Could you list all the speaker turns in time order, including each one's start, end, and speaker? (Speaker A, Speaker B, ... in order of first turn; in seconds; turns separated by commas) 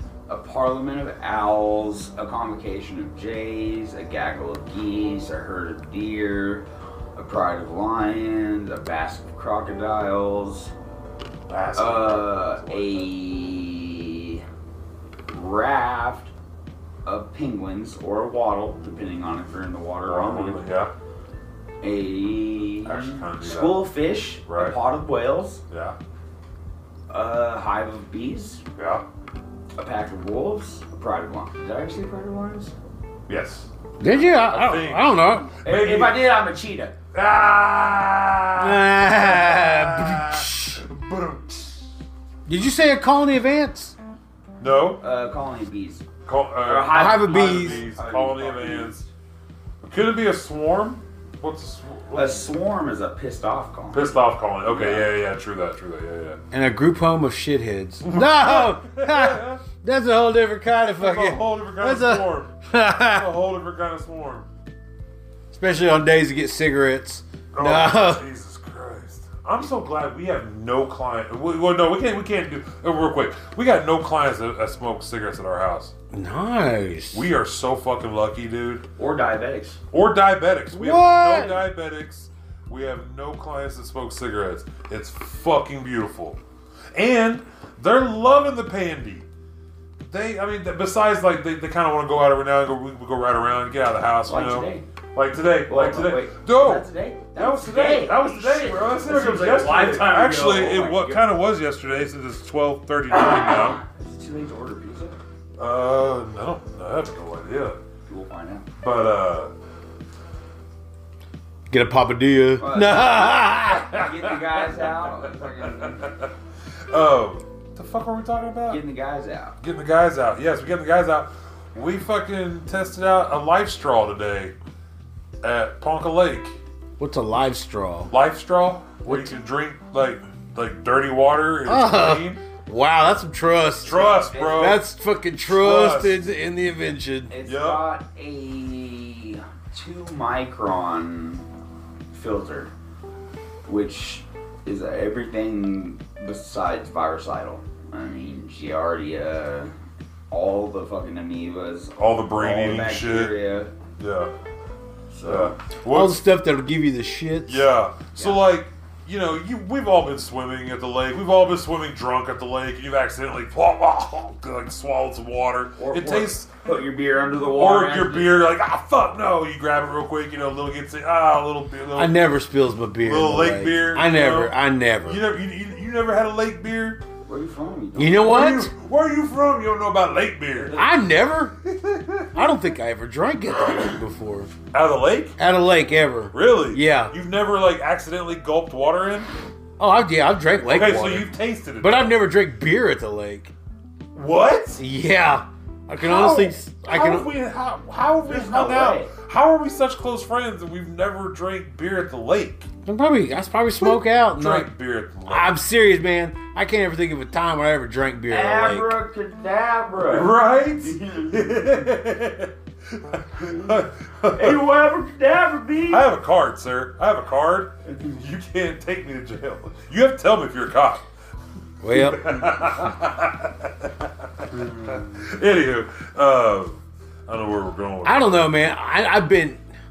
Speaker A: 0.3-10.7, Speaker B: 11.5-13.1, Speaker A: 11.7-14.4, Speaker A: 15.3-16.3, Speaker A: 17.0-20.6, Speaker B: 20.0-20.9, Speaker A: 21.8-25.6, Speaker B: 22.8-23.9, Speaker B: 24.5-24.8, Speaker B: 25.7-26.0, Speaker A: 27.1-28.6, Speaker B: 28.8-29.1, Speaker A: 29.8-32.7, Speaker B: 33.3-36.2, Speaker C: 34.0-35.5, Speaker A: 35.6-36.9, Speaker B: 37.1-41.7, Speaker C: 38.6-40.8, Speaker C: 42.5-44.0, Speaker B: 44.6-45.0, Speaker A: 45.0-46.1, Speaker B: 46.2-49.0, Speaker A: 46.6-49.1, Speaker C: 46.9-47.8, Speaker B: 49.8-52.4, Speaker A: 52.1-55.1, Speaker B: 53.9-56.4, Speaker C: 56.5-63.3, Speaker B: 58.0-59.6, Speaker B: 61.0-64.5, Speaker C: 65.5-68.2, Speaker B: 67.5-75.9, Speaker C: 76.1-77.2, Speaker B: 77.1-78.8, Speaker A: 79.0-79.8, Speaker B: 79.9-86.4, Speaker C: 80.7-81.6, Speaker B: 86.9-89.2, Speaker B: 90.0-103.8, Speaker A: 94.3-94.8, Speaker A: 95.7-101.2, Speaker A: 103.1-105.2, Speaker B: 105.6-107.8, Speaker A: 108.1-108.7, Speaker B: 108.8-109.5, Speaker C: 111.7-113.9, Speaker A: 112.6-116.1, Speaker B: 113.9-116.3, Speaker B: 116.9-118.8, Speaker A: 118.7-119.5, Speaker B: 119.6-124.5, Speaker B: 125.4-126.6, Speaker C: 127.0-128.1, Speaker B: 128.1-132.4, Speaker C: 129.1-129.3, Speaker C: 131.7-137.3, Speaker B: 133.8-134.8, Speaker A: 133.8-134.8, Speaker B: 135.4-136.2, Speaker A: 137.3-141.4, Speaker B: 137.4-137.8, Speaker A: 142.1-142.7, Speaker A: 143.7-149.7, Speaker A: 150.3-153.7, Speaker B: 152.0-153.3, Speaker B: 154.0-154.3, Speaker A: 155.1-155.6, Speaker B: 155.2-156.2, Speaker C: 155.9-157.7, Speaker B: 157.4-166.5, Speaker A: 165.8-168.4, Speaker B: 167.5-172.3, Speaker C: 171.9-175.2, Speaker B: 173.0-177.0, Speaker A: 177.2-178.5, Speaker C: 178.0-178.7, Speaker B: 178.2-180.8, Speaker C: 180.7-181.6, Speaker B: 181.6-182.5, Speaker C: 182.3-184.5, Speaker B: 184.7-185.4, Speaker C: 185.4-187.1, Speaker B: 186.3-189.3, Speaker C: 189.8-193.5, Speaker B: 190.6-192.1, Speaker B: 194.1-194.8, Speaker C: 194.8-197.3, Speaker B: 196.0-202.7, Speaker A: 198.2-199.1, Speaker C: 202.8-204.7, Speaker B: 203.8-205.6, Speaker C: 205.3-208.9, Speaker A: 208.3-211.9, Speaker B: 210.0-214.7, Speaker A: 213.4-213.8, Speaker A: 214.3-216.1, Speaker B: 215.9-221.0, Speaker C: 221.8-222.5, Speaker B: 221.9-228.5, Speaker A: 224.5-225.3, Speaker C: 228.0-229.6